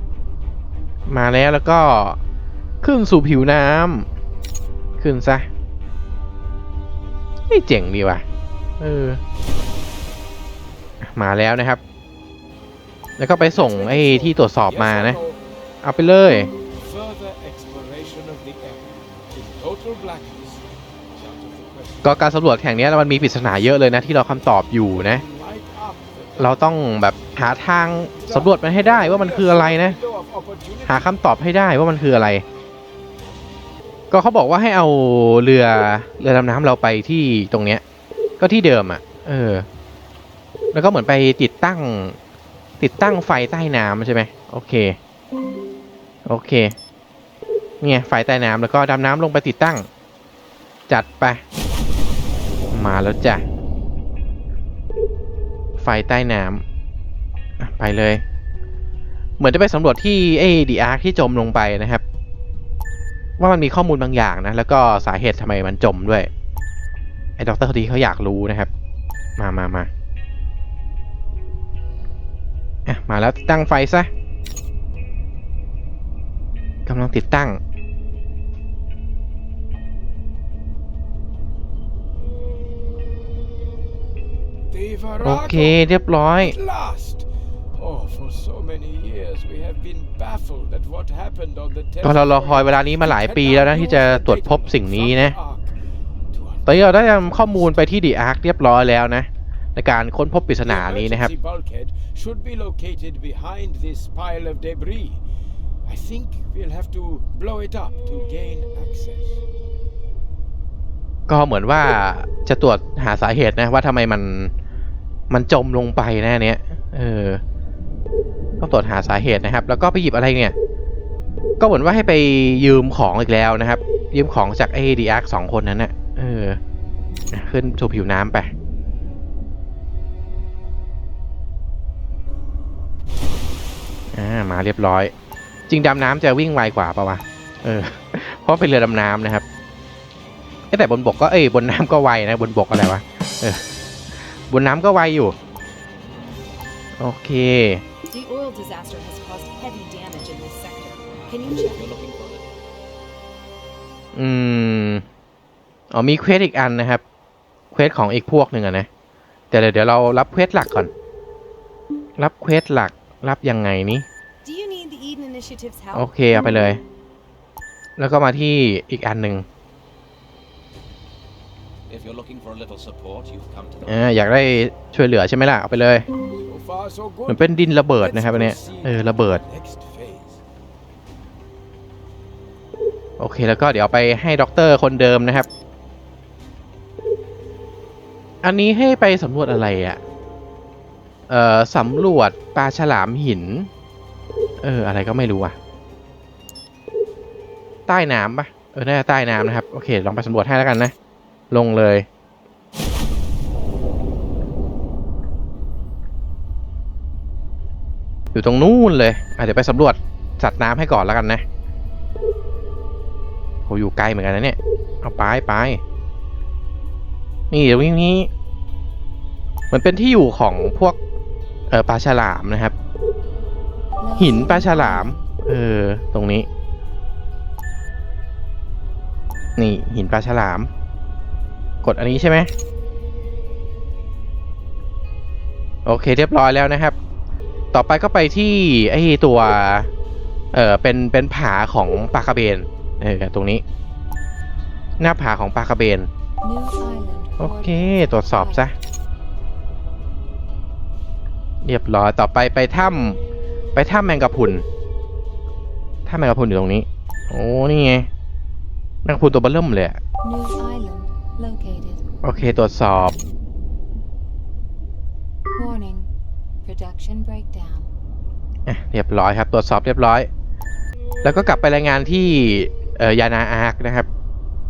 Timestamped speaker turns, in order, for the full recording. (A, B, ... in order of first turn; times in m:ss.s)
0:01.1-0:02.2 A
0:02.8-0:04.1 A
0:05.0-0:05.5 A
0:07.5-0:08.2 A
0:08.8-0:09.2 A
0:11.0-0:11.8 A
0:13.2-0:15.2 A
0:13.5-0:15.4 B
0:15.8-0:16.5 A
0:16.8-0:26.7 B
0:22.0-0:25.2 A
0:26.4-0:30.0 A
0:28.2-0:31.2 B
0:30.9-0:32.4 A
0:34.1-0:37.8 A
0:38.4-0:39.7 A
0:40.7-0:42.2 A
0:42.8-0:45.0 A
0:46.2-0:46.8 A
0:47.8-0:49.9 A
0:50.9-0:51.4 A
0:52.7-0:53.4 A
0:55.8-0:56.6 A
0:57.6-0:58.2 A
0:59.4-1:02.0 A
1:03.4-1:06.3 A
1:07.4-1:08.7 A
1:09.4-1:09.9 A
1:12.9-1:14.1 A
1:16.9-1:17.6 A
1:24.7-1:35.8 B
1:25.2-1:26.5 A
1:32.0-1:35.4 A
1:36.3-1:38.0 B
1:36.7-1:41.3 A
1:40.6-1:45.2 B
1:45.9-1:49.4 B
1:51.3-1:54.5 A
1:55.3-1:57.4 A
1:58.6-2:00.6 A
2:01.6-2:06.6 A
2:07.3-2:08.5 A
2:14.1-2:15.1 A
2:15.7-2:19.4 A
2:20.7-2:23.6 A
2:24.5-2:25.4 A
2:27.0-2:27.8 A
2:28.1-2:31.9 C
2:31.5-2:32.5 D
2:34.2-2:35.0 A
2:35.9-2:37.0 A
2:37.7-2:38.9 A
2:39.5-2:40.9 A
2:42.2-2:44.1 A
2:44.4-2:46.1 C
2:45.9-2:46.8 A
2:48.0-2:49.5 A
2:51.9-2:54.2 D
2:53.8-2:56.1 A
2:56.5-3:00.4 B
2:57.3-2:59.4 A
3:03.2-3:05.5 A
3:08.4-3:10.0 A
3:11.3-3:13.7 A
3:14.6-3:15.6 A
3:17.9-3:20.9 A
3:21.5-3:22.1 A
3:28.3-3:31.4 A
3:33.7-3:35.8 A
3:37.5-3:38.3 A
3:39.7-3:41.0 A
3:41.7-3:42.7 A
3:44.0-3:45.3 E
3:44.2-3:46.5 A
3:49.6-3:50.7 A
3:51.8-3:52.5 A
3:55.8-3:57.0 A
3:57.7-3:59.9 A
4:00.5-4:03.6 A
4:05.0-4:06.1 A
4:06.4-4:08.7 E
4:07.4-4:08.7 A
4:11.6-4:13.2 A
4:13.8-4:14.7 A
4:16.1-4:18.1 A
4:19.0-4:20.0 A
4:20.2-4:22.0 E
4:22.2-4:23.2 A
4:25.6-4:26.1 E
4:26.6-4:27.9 E
4:28.7-4:30.3 A
4:31.2-4:34.1 A